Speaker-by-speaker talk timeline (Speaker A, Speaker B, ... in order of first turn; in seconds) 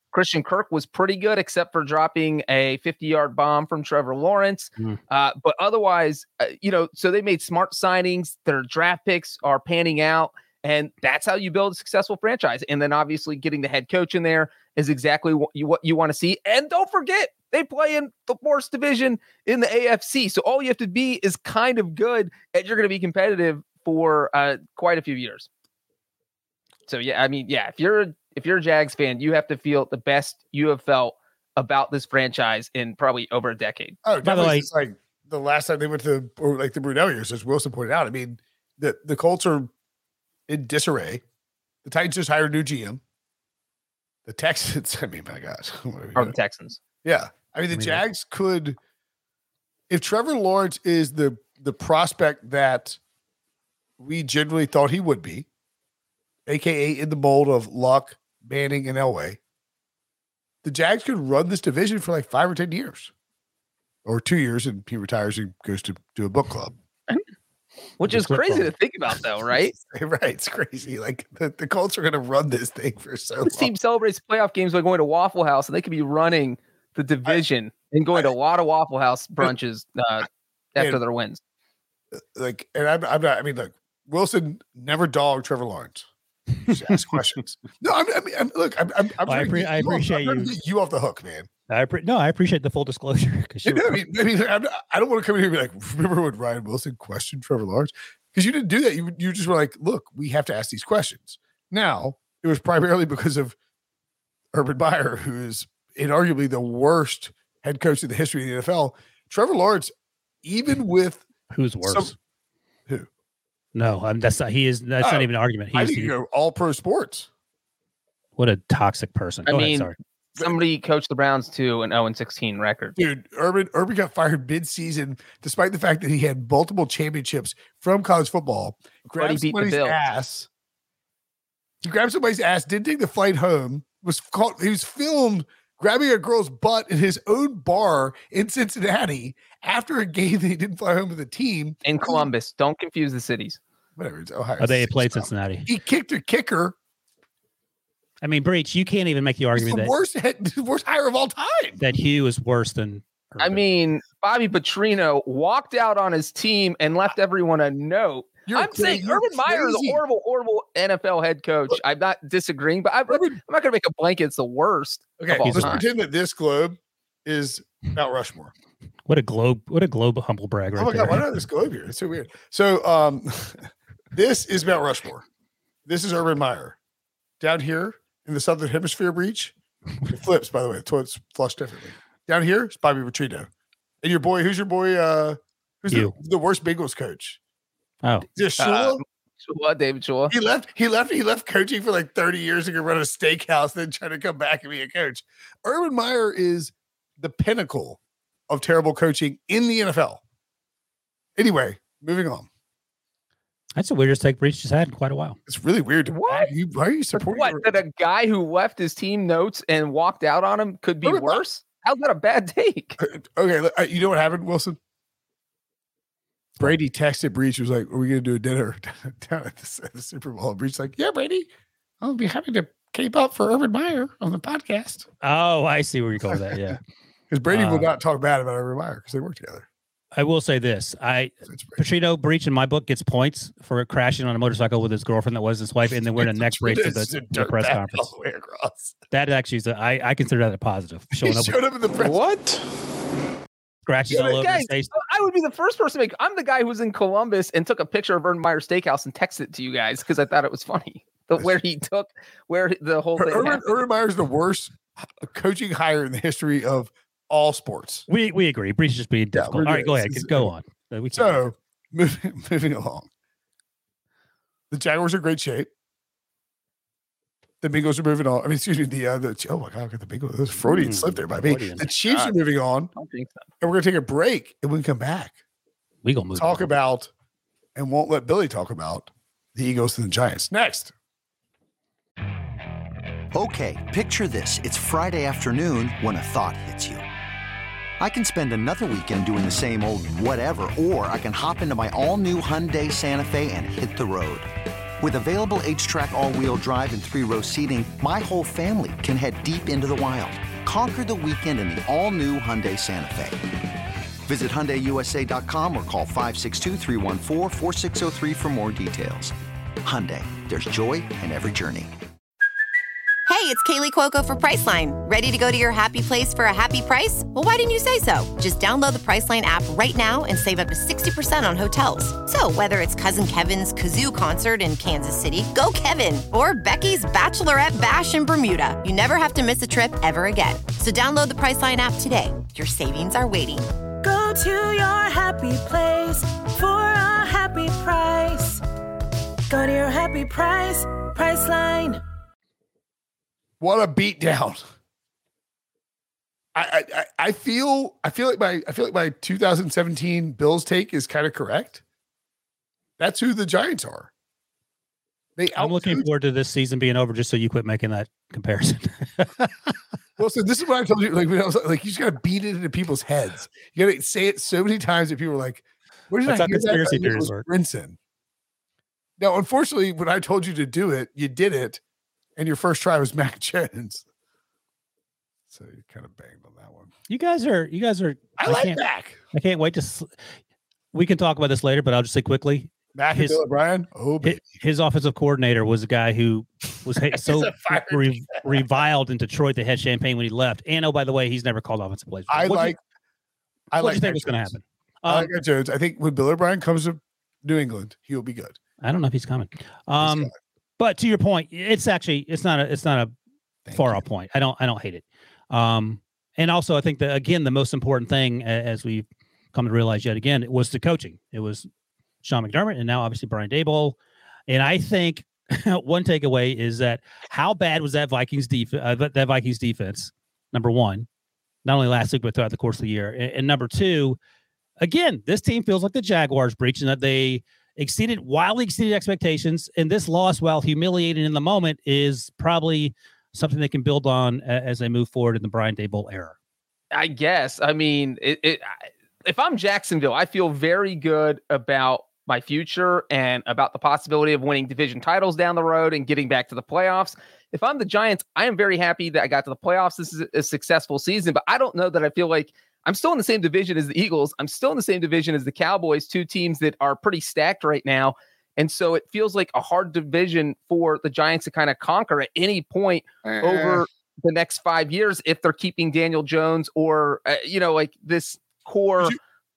Speaker A: 0.1-25.5, 26.9-34.0, 46.1-46.8, 68.0-69.8, 73.5-81.4, 119.5-123.0, 129.2-129.9, 141.8-143.6, 153.4-165.8, 188.6-190.3, 206.1-206.5, 207.2-213.0, 242.0-242.6, 244.1-253.6, 272.0-272.3, 272.9-273.4, 436.9-469.2
Speaker B: 34.0-39.7, 40.5-41.2, 41.8-43.0, 44.2-46.4, 47.0-48.8, 49.9-53.0, 54.0-55.5, 56.5-59.4, 60.6-63.1, 64.0-66.8, 69.8-73.7, 82.1-86.1, 86.7-91.5, 93.6-103.5, 104.5-111.3, 111.8-112.1, 115.0-117.3, 123.0-130.5, 131.8-142.3, 143.9-146.8, 149.5-151.8, 158.5-160.0, 163.1-163.4, 165.2-168.5, 170.8-175.2, 175.8-176.8, 177.4-179.5, 180.1-183.5, 184.0-187.4, 188.3-189.0, 190.3-200.2, 201.3-202.5, 205.5-207.8, 211.0-211.4, 213.0-214.8, 216.6-221.5, 222.0-225.1, 226.3-226.8, 227.3-229.7, 231.5-231.8, 236.2-239.0, 241.1-242.3, 253.2-258.1, 259.3-260.5, 261.1-263.1, 264.7-265.7, 267.6-272.9, 273.6-275.4, 276.3-277.1, 277.7-280.9, 343.6-344.6, 346.5-351.8, 353.0-354.1, 355.4-356.1, 360.2-368.0, 369.2-371.8, 372.4-374.0, 375.5-376.9, 378.4-379.2, 382.9-384.4, 387.1-388.6, 392.3-392.8, 393.7-394.5, 395.1-398.6, 400.0-400.4, 403.6-404.0, 463.2-463.9
Speaker C: 34.2-34.7, 47.7-48.0, 68.0-68.7, 86.7-86.9, 89.2-90.5, 91.7-94.0, 111.5-112.1, 113.7-116.1, 118.4-119.9, 144.6-145.7, 148.2-149.9, 151.8-153.6, 165.4-165.8, 169.1-171.2, 203.8-205.4, 225.2-226.8, 227.5-227.9, 230.2-238.1, 239.1-241.6, 243.8-244.9, 258.1-261.4, 270.6-271.9, 276.0-276.8, 355.5-359.5, 366.2-367.5, 377.1-378.8, 379.3-380.1, 380.9-383.4, 384.2-392.8, 393.8-395.3, 398.8-403.1, 403.7-411.7, 412.2-414.0, 414.5-421.1, 421.6-424.2, 424.8-436.3
Speaker D: 283.3-287.0, 288.0-294.5, 295.0-303.4, 304.2-309.3, 309.8-311.9
Speaker E: 313.3-333.7
Speaker F: 334.0-338.6, 339.5-342.0